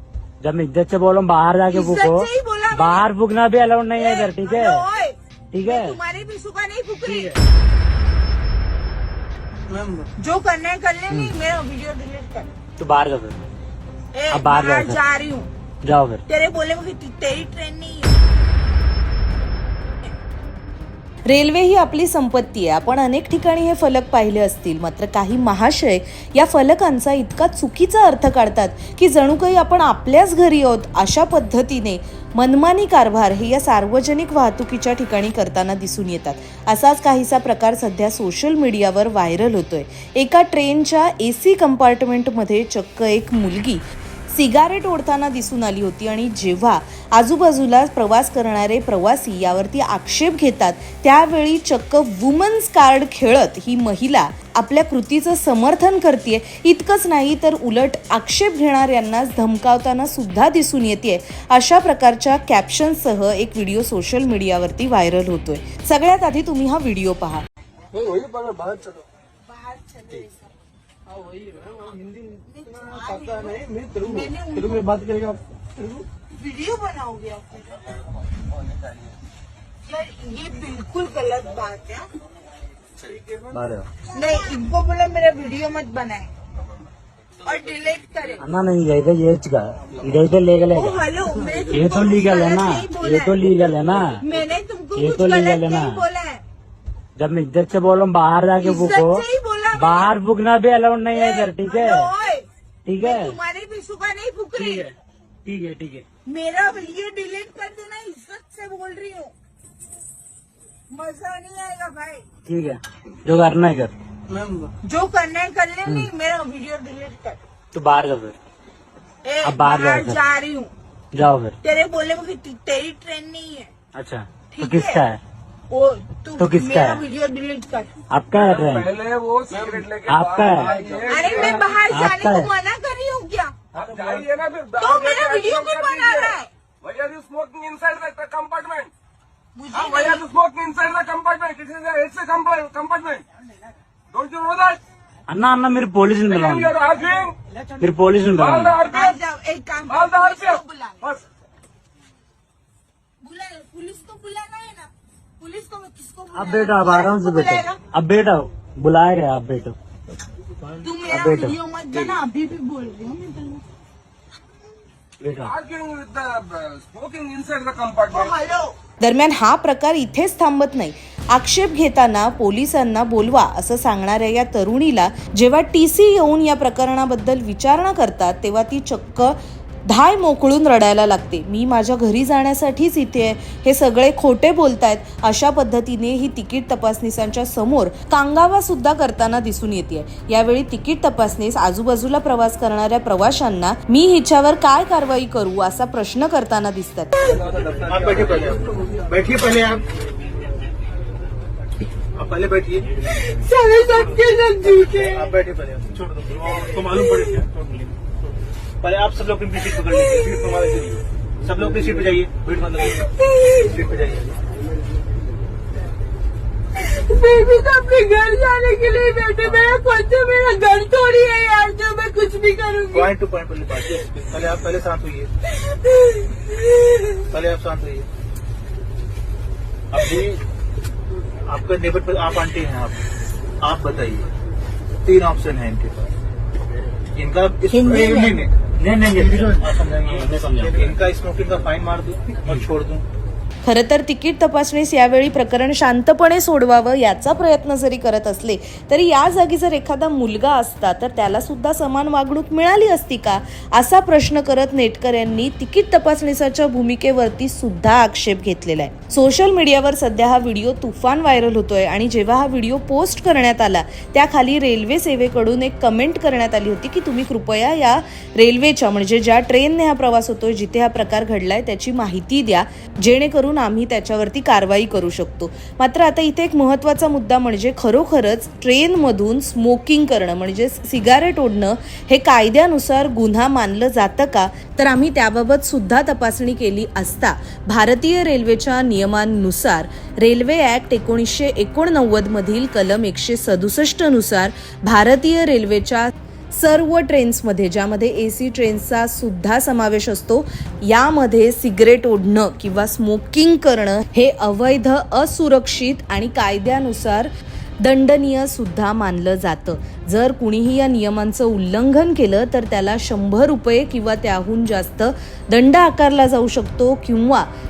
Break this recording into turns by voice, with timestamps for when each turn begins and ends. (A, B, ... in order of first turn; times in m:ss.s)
0:00.4-0:04.8 A
0:01.7-0:03.0 B
0:04.0-0:07.4 B
0:05.5-0:06.0 A
0:07.0-0:07.4 A
0:10.2-0:12.5 B
0:12.8-0:13.4 A
0:14.1-0:15.5 B
0:14.3-0:15.0 A
0:15.8-0:16.2 A
0:16.3-0:18.1 B
0:21.2-1:07.4 C
1:07.9-1:09.0 D
1:09.4-1:10.5 B
1:12.1-1:15.3 B
1:13.5-1:13.9 D
1:15.0-1:15.4 D
1:16.3-1:17.7 B
1:19.8-1:22.1 B
1:23.5-1:23.9 A
1:24.1-1:26.3 B
1:27.4-1:28.4 B
1:28.4-1:31.0 A
1:30.7-1:33.4 B
1:31.7-1:34.2 A
1:34.2-1:36.4 B
1:34.9-1:36.0 A
1:37.2-1:42.1 A
1:38.6-1:40.1 B
1:41.1-1:42.4 B
1:42.8-1:43.4 A
1:43.0-1:44.8 B
1:44.6-1:44.9 A
1:45.4-1:46.0 A
1:46.2-1:49.3 B
1:50.9-1:52.2 B
1:52.4-1:53.9 A
1:54.3-1:54.7 D
1:54.8-1:57.4 B
1:57.7-1:58.3 A
1:59.2-2:00.7 B
1:59.4-2:00.2 A
2:01.1-2:01.5 A
2:01.6-2:03.7 B
2:03.9-2:05.2 A
2:04.5-2:05.0 B
2:05.7-2:08.0 B
2:06.4-2:07.0 A
2:08.1-2:09.0 A
2:08.4-2:11.7 D
2:10.1-2:10.8 A
2:11.0-2:13.5 B
2:11.9-2:12.5 A
2:13.7-2:16.3 D
2:14.8-2:16.5 B
2:16.8-2:18.9 D
2:19.5-2:20.3 B
2:19.7-2:23.2 D
2:24.1-2:24.8 D
2:25.3-2:26.7 A
2:26.3-2:27.4 D
2:27.8-2:28.8 A
2:28.4-2:29.0 D
2:28.8-2:31.1 B
2:30.0-2:30.6 D
2:33.2-2:37.8 B
2:36.4-2:39.8 A
2:40.8-2:43.6 B
2:41.1-2:41.6 A
2:45.2-2:45.5 A
2:45.5-2:48.3 D
2:48.1-2:48.7 B
2:49.0-3:17.1 C
3:17.5-3:18.2 D
3:17.8-3:19.8 E
3:22.2-3:22.9 E
3:23.1-3:25.3 B
3:24.8-3:28.0 E
3:28.8-3:33.1 E
3:33.2-3:33.7 B
3:33.7-3:34.3 E
3:36.8-3:43.1 B
3:42.9-3:45.3 E
3:45.9-3:47.1 B
3:47.3-3:48.1 E
3:49.9-3:50.4 E
3:51.5-3:53.0 E
3:53.6-3:54.2 E
3:55.0-3:56.0 E
3:57.2-4:03.0 E
3:57.7-3:58.4 B
4:03.6-5:07.3 C
5:07.8-5:17.5 C